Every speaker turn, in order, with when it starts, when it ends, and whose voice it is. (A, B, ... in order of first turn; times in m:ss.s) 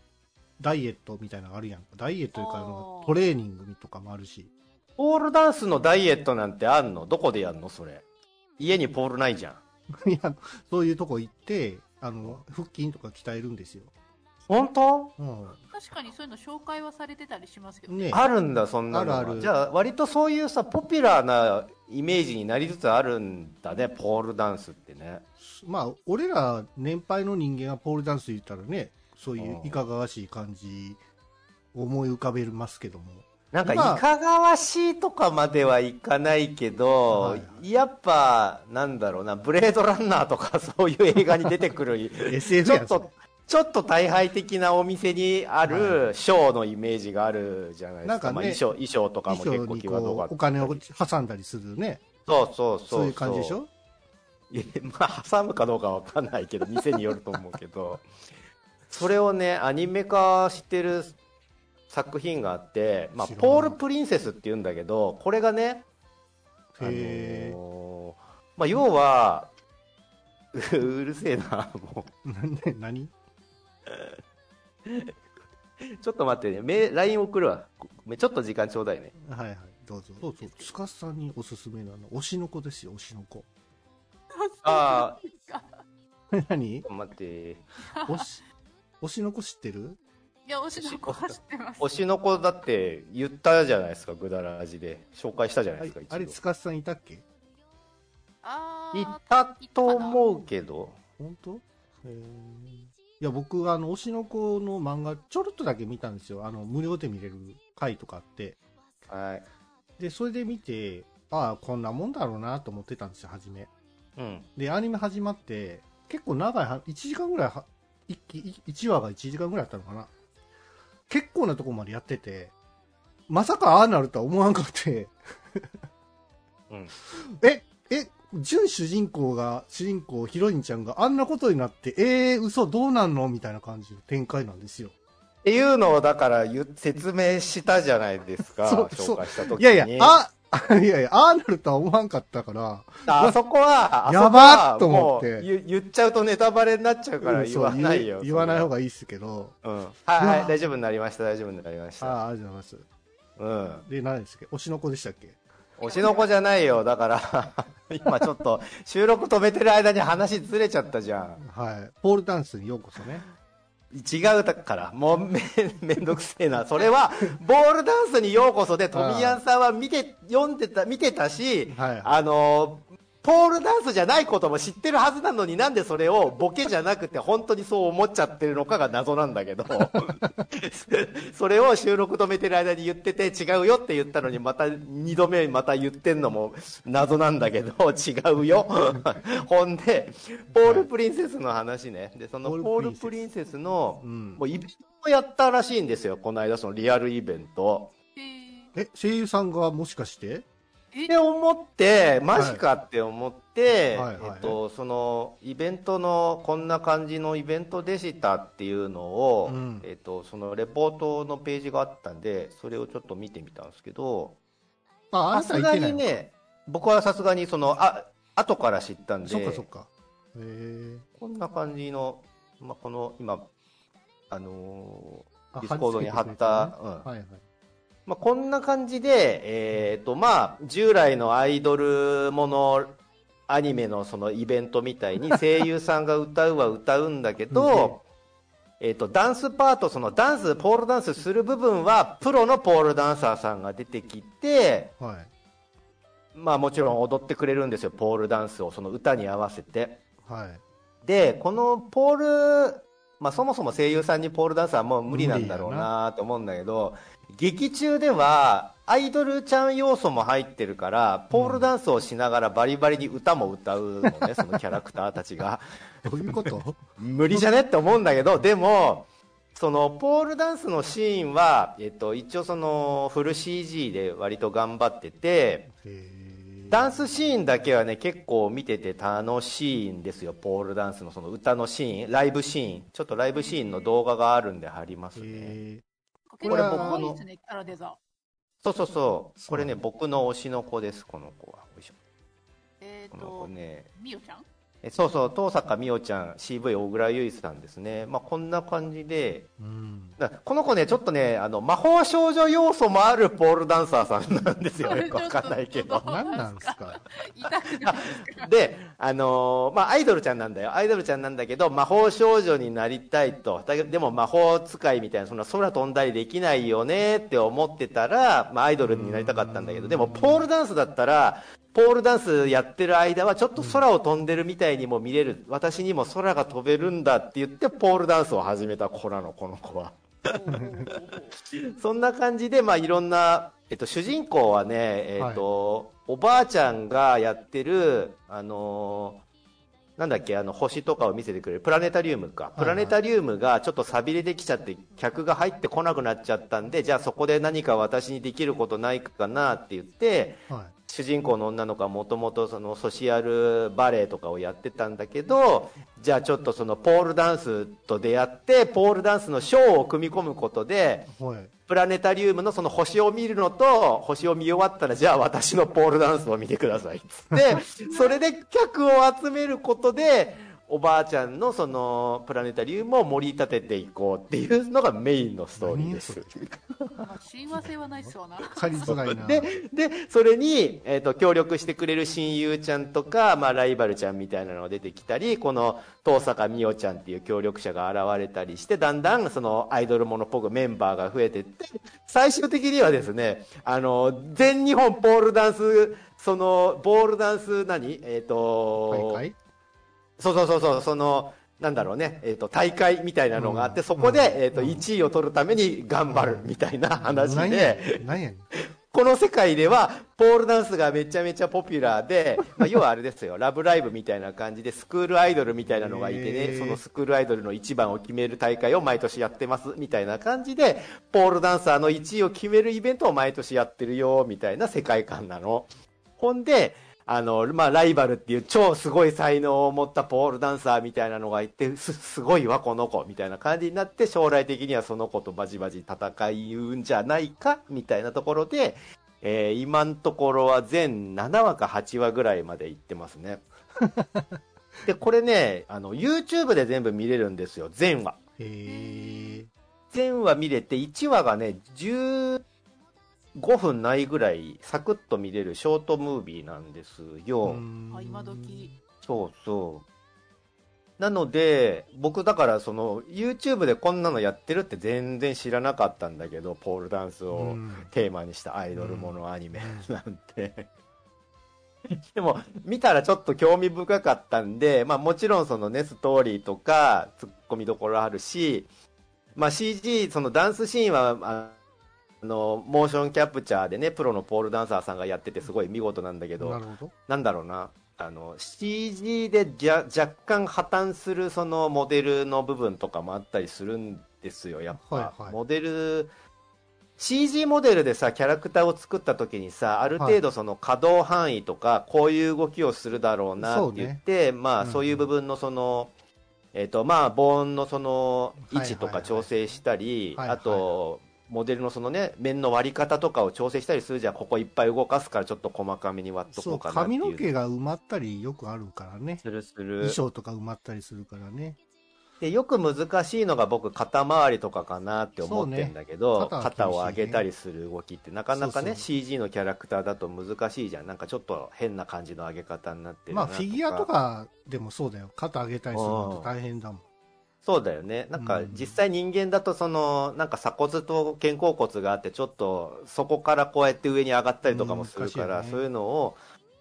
0:00.6-0:04.5 A
0:02.4-0:03.1 B
0:05.0-0:08.0 C
0:08.6-0:09.6 C
0:09.9-0:13.9 A
0:14.5-0:15.2 C
0:15.2-0:15.6 A
0:15.7-0:18.2 B
0:17.9-0:18.2 A
0:18.1-0:25.2 C
0:18.9-0:19.5 A
0:25.4-0:31.0 A
0:29.4-0:29.8 C
0:31.7-0:34.0 A
0:33.5-0:50.8 C
0:37.1-0:37.6 A
0:42.3-0:43.1 A
0:45.7-0:46.1 A
0:48.0-0:48.6 A
0:49.3-0:52.1 A
0:52.3-0:53.6 C
0:52.9-0:53.7 A
0:54.5-0:58.1 C
0:58.9-1:01.2 C
1:01.9-1:05.9 C
1:03.2-1:03.8 A
1:06.7-1:07.6 A
1:06.8-1:09.5 C
1:10.5-1:12.1 C
1:12.2-1:13.1 A
1:13.9-1:14.2 C
1:14.9-1:15.1 C
1:15.8-1:19.2 C
1:19.2-1:23.5 A
1:24.3-1:25.8 B
1:24.6-1:25.2 C
1:26.3-1:26.9 A
1:26.8-1:27.7 C
1:28.1-1:28.4 A
1:29.0-1:30.0 A
1:30.5-1:32.0 B
1:30.8-1:36.4 C
1:35.8-1:37.2 A
1:38.4-1:40.2 B
1:38.9-1:41.0 C
1:41.2-1:48.6 A
1:49.1-1:49.5 C
1:50.0-1:53.7 A
1:54.2-1:54.5 C
1:54.6-2:00.1 A
2:01.1-2:02.5 A
2:03.3-2:05.7 A
2:07.1-2:14.9 A
2:15.4-2:20.2 C
2:18.6-2:23.4 A
2:23.1-2:28.7 C
2:24.1-2:25.5 A
2:27.2-2:29.6 A
2:29.6-2:32.2 C
2:30.2-2:30.6 A
2:32.0-2:32.9 A
2:33.4-2:33.9 C
2:33.8-2:35.4 A
2:35.8-2:41.4 C
2:35.8-2:36.3 B
2:41.4-2:43.2 A
2:43.9-3:17.9 C
2:48.9-2:49.4 A
2:51.7-2:52.2 A
3:10.6-3:10.9 A
3:12.4-3:13.2 A
3:14.0-3:14.4 A
3:18.2-3:18.7 B
3:18.8-3:20.5 A
3:21.1-3:34.4 C
3:22.4-3:22.6 A
3:23.9-3:24.6 A
3:29.4-3:29.9 A
3:35.1-3:36.2 A
3:35.3-3:39.7 C
3:39.2-3:41.0 A
3:41.2-3:43.5 C
3:44.3-3:47.1 C
3:45.5-3:47.4 A
3:48.1-3:58.0 C
3:57.5-3:58.0 A
3:58.8-4:04.9 C
4:05.0-4:05.3 A
4:06.3-4:10.0 C
4:10.2-4:10.6 A
4:11.0-4:35.7 C
4:15.1-4:15.9 A
4:21.3-4:21.7 A
4:26.0-4:26.8 A
4:35.8-4:37.1 A
4:36.7-4:45.6 C
4:43.3-4:44.0 B
4:45.2-4:45.8 A
4:46.3-4:48.0 B
4:46.4-4:47.2 A
4:46.4-4:47.2 C
4:48.6-4:52.0 C
4:49.4-4:49.8 A
4:52.8-4:54.4 B
4:53.1-4:53.9 C
4:54.8-4:59.5 C
4:59.6-5:00.2 A
5:00.2-5:06.1 C
5:04.8-5:08.5 B
5:06.0-5:07.0 A
5:07.7-5:30.6 C
5:18.9-5:20.4 A
5:23.6-5:23.8 A
5:30.3-5:31.4 B
5:30.5-5:30.8 A
5:31.5-5:39.2 C
5:35.2-5:35.4 A
5:40.0-6:01.1 C
5:42.6-5:43.0 A
6:01.1-6:01.5 A
6:01.7-6:16.6 C
6:15.6-6:16.4 A
6:17.0-6:18.9 B
6:18.0-6:19.5 A
6:18.8-6:39.2 C
6:38.9-6:39.4 A
6:40.2-6:48.0 C
6:43.3-6:44.9 A
6:46.1-6:46.5 A
6:47.0-6:48.4 A
6:48.9-7:23.4 C
6:55.7-6:56.8 A
7:23.8-7:24.4 A
7:24.8-7:28.2 C
7:28.4-7:29.5 A
7:28.7-7:29.3 B
7:29.9-7:32.4 C
7:33.4-7:37.6 C
7:37.4-7:38.8 A
7:37.9-7:38.7 B
7:39.0-7:39.8 C
7:41.0-7:50.7 C
7:47.3-7:47.9 A
7:48.8-7:49.9 A
7:51.9-7:58.7 C
7:59.4-8:01.6 C
8:02.2-8:16.1 C
8:06.4-8:06.9 A
8:14.8-8:15.4 A
8:17.0-8:25.9 C
8:23.4-8:24.0 A
8:24.6-8:25.1 A
8:26.5-8:37.3 C
8:28.5-8:29.3 A
8:30.2-8:30.7 A
8:36.3-8:39.2 A
8:39.2-8:40.0 C
8:39.8-8:41.6 A
8:42.2-8:53.9 C
8:45.2-8:47.3 A
8:48.3-8:48.9 A
8:53.1-8:56.8 A
8:55.7-8:56.3 C
8:57.4-9:06.2 C
8:58.2-8:58.8 A
9:04.4-9:05.6 A